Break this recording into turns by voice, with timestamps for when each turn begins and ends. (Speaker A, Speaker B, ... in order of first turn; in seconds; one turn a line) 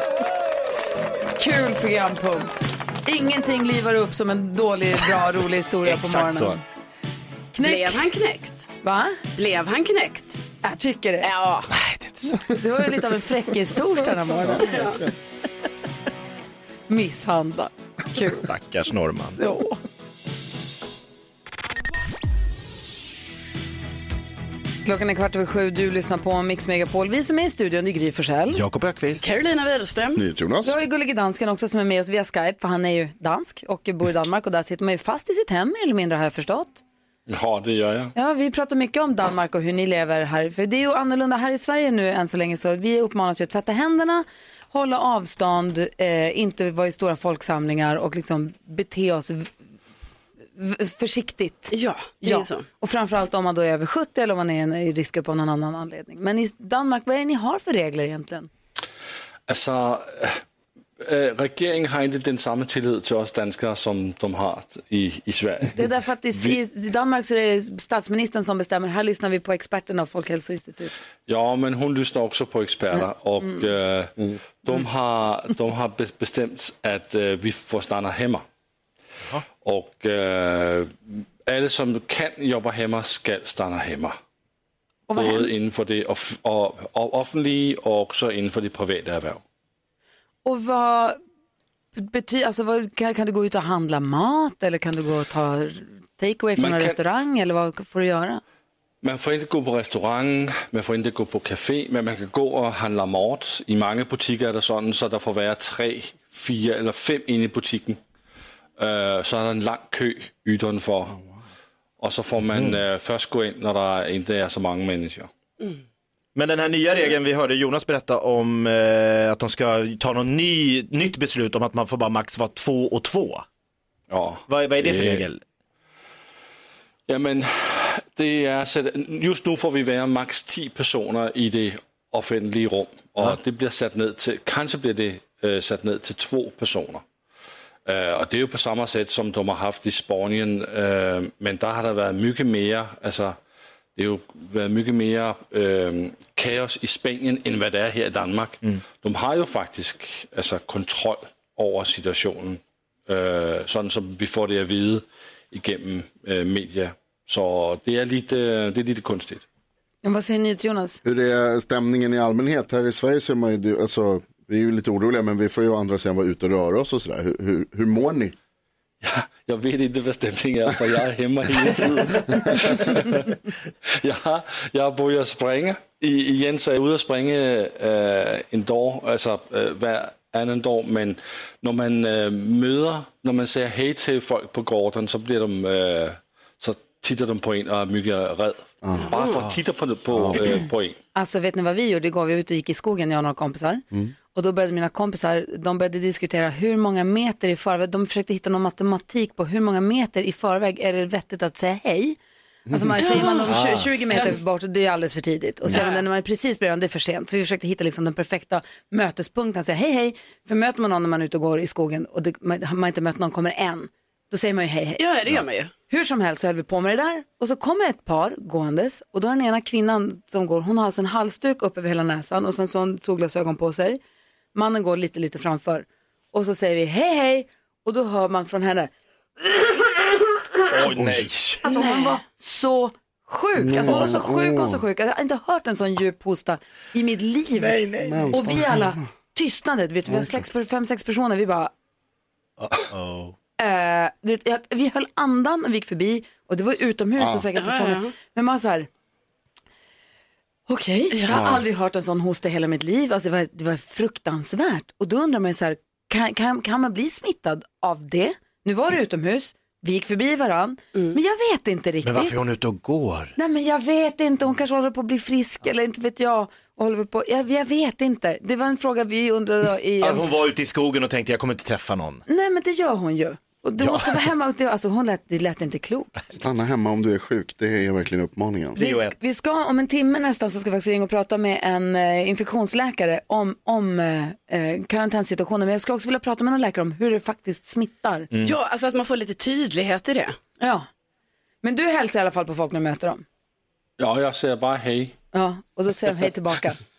Speaker A: 1.4-6.6
Speaker B: 5.8-6.6
Speaker A: 7.5-8.0
Speaker C: 7.6-8.7
Speaker A: 8.8-9.2
Speaker C: 9.3-10.4
Speaker A: 10.6-11.3
Speaker C: 11.2-11.7
Speaker B: 11.7-12.6
Speaker A: 12.5-15.0
Speaker C: 14.6-15.0
Speaker A: 16.9-18.4
Speaker B: 18.3-19.4
Speaker A: 19.4-19.8
Speaker A: 24.8-28.6
Speaker B: 28.5-29.3
Speaker C: 29.2-30.2
Speaker D: 30.1-30.7
Speaker A: 30.6-36.8
Speaker E: 37.3-38.1
Speaker A: 38.1-49.5
Speaker A: 50.6-58.5
Speaker C: 51.7-52.6
Speaker E: 59.5-60.4
Speaker E: 61.0-65.7
Speaker A: 65.8-70.9
Speaker E: 71.3-78.4
Speaker E: 79.6-84.1
Speaker A: 85.1-85.5
Speaker E: 85.1-89.4
Speaker A: 90.4-91.2
Speaker A: 91.9-98.4
Speaker E: 96.6-97.0
Speaker E: 99.0-108.0
Speaker E: 108.8-111.2
Speaker E: 112.0-115.3
Speaker B: 116.3-123.5
Speaker E: 124.1-125.3
Speaker B: 124.5-125.4
Speaker E: 127.1-137.0
Speaker E: 137.8-143.4
Speaker E: 143.9-159.4
Speaker A: 160.0-161.0
Speaker D: 161.0-168.3
Speaker E: 169.0-173.4
Speaker E: 174.0-191.0
Speaker D: 188.8-189.1
Speaker A: 191.1-202.2
Speaker D: 202.7-203.0
Speaker A: 202.7-215.0
Speaker B: 203.4-203.9
Speaker C: 205.7-206.0
Speaker C: 215.0-215.7
Speaker A: 215.9-224.0
Speaker A: 224.5-230.2
Speaker B: 230.7-231.6
Speaker D: 231.0-231.3
Speaker A: 231.6-241.7
Speaker C: 231.7-232.2
Speaker D: 233.6-234.8
Speaker B: 237.6-238.3
Speaker D: 238.0-239.1
Speaker B: 242.6-243.3
Speaker A: 243.6-248.9
Speaker D: 247.2-247.4
Speaker C: 247.6-248.1
Speaker A: 250.7-262.4
Speaker D: 251.3-251.6
Speaker B: 262.0-263.3
Speaker A: 263.4-270.2
Speaker B: 270.0-272.2
Speaker A: 272.3-276.1
Speaker B: 273.8-274.1
Speaker D: 276.3-278.8
Speaker B: 278.8-279.1
Speaker A: 278.8-288.3
Speaker C: 288.4-290.4
Speaker A: 290.6-290.9
Speaker A: 291.6-293.2
Speaker E: 294.0-295.1
Speaker A: 295.3-296.8